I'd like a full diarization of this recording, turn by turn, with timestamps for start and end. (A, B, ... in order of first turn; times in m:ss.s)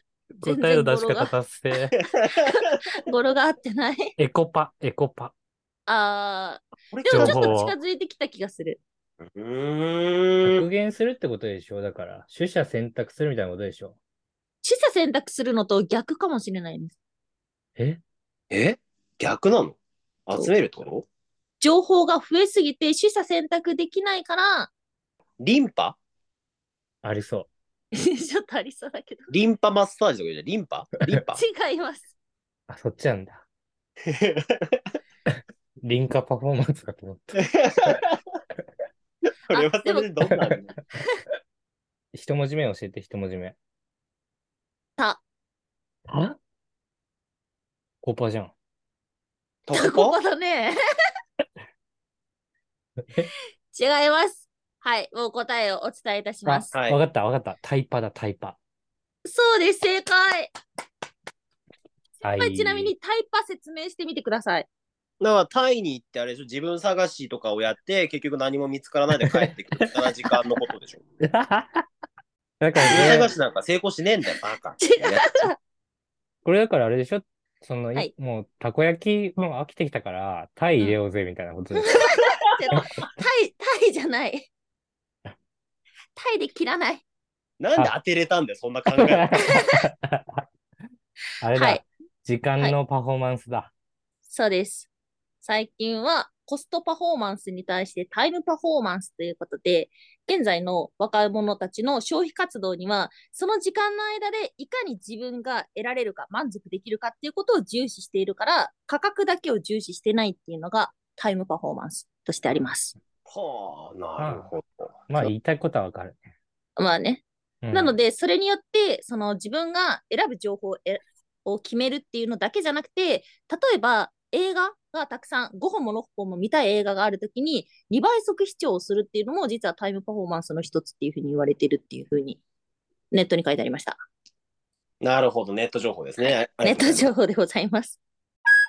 0:00.4-0:02.0 A
0:00.4-0:01.3 B
0:02.0-0:02.4 C
0:02.3-0:04.1 B
0:04.2-0:05.3 A
0:05.9-0:08.8 B
0:06.9-0:07.6 C
0:07.1-0:07.8 A
0:09.2-0:10.7 C
0:10.4-0:14.0 A
0:14.6-0:17.0 B
0:18.5-0:21.0 C
0:21.6-0:24.7 B
0:25.4-0:26.0 C
0:27.0-0:27.5 A
0:27.9-0:29.3 B
0:29.3-0:31.4 C
0:31.3-0:32.1 B
0:32.7-0:33.4 A
0:34.1-0:34.8 C
0:35.8-0:37.9 A
0:37.4-0:38.2 C
0:39.5-0:40.7 C
0:39.5-0:40.1 B
0:40.3-0:40.6 A
0:42.1-0:43.5 A
0:45.0-0:45.2 B
0:46.1-0:46.4 A
0:48.0-0:48.5 A
0:49.6-0:50.2 C
0:49.7-0:50.8 B
0:53.7-0:56.7 B
0:56.4-0:58.6 A
0:56.7-0:57.0 C
0:59.2-1:00.5 B
1:02.2-1:02.9 A
1:02.2-1:04.7 B
1:05.2-1:11.0 C
1:11.2-1:11.8 A
1:12.6-1:13.3 A
1:12.9-1:15.5 C
1:14.8-1:15.5 B
1:16.4-1:22.0 A
1:21.8-1:24.5 B
1:26.1-1:27.0 B
1:27.6-1:29.4 C
1:29.0-1:30.4 A
1:29.6-1:29.8 B
1:31.4-1:33.7 A
1:31.5-1:31.9 B
1:34.3-1:34.9 B
1:35.4-1:52.9 B
1:53.3-1:55.3 C
1:54.2-1:54.5 A
1:55.1-1:56.2 A
1:56.8-2:12.4 B
1:57.6-1:58.0 A
2:13.1-2:14.0 B
2:15.0-2:17.1 C
2:16.2-2:18.0 B